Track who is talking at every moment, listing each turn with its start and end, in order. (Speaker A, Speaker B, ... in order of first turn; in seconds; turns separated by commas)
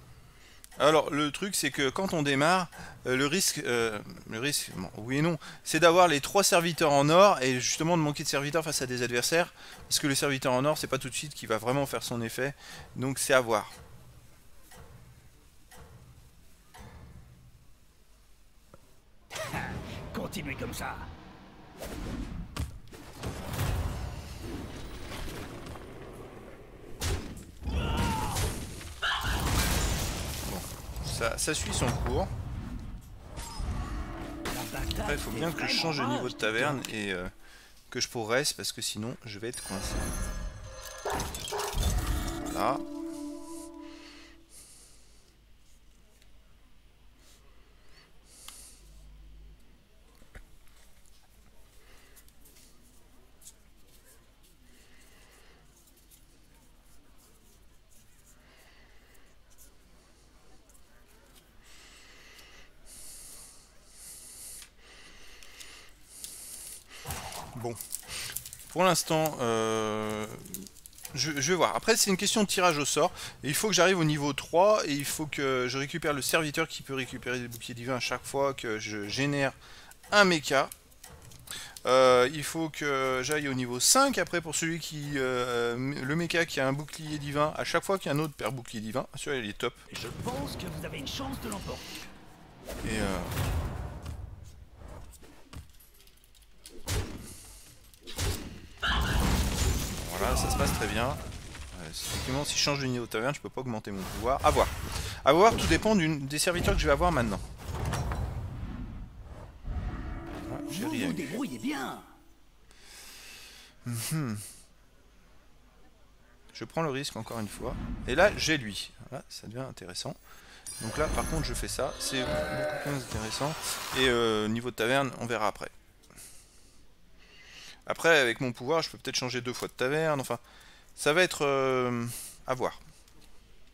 Speaker A: 0.8-13.8, Speaker B: 19.3-21.1, Speaker A: 30.4-32.3, Speaker B: 34.5-36.9, Speaker A: 35.0-37.3, Speaker A: 37.9-40.1, Speaker A: 42.4-42.8, Speaker A: 67.5-67.8, Speaker A: 68.7-79.5, Speaker A: 80.1-80.7, Speaker A: 81.8-89.8, Speaker B: 89.9-91.9, Speaker A: 92.8-93.3, Speaker A: 100.0-101.2, Speaker A: 101.7-107.4, Speaker A: 110.5-111.4, Speaker B: 110.7-112.1, Speaker A: 113.8-114.5, Speaker A: 116.5-120.2, Speaker A: 120.8-125.7, Speaker A: 127.8-130.4, Speaker A: 131.0-132.8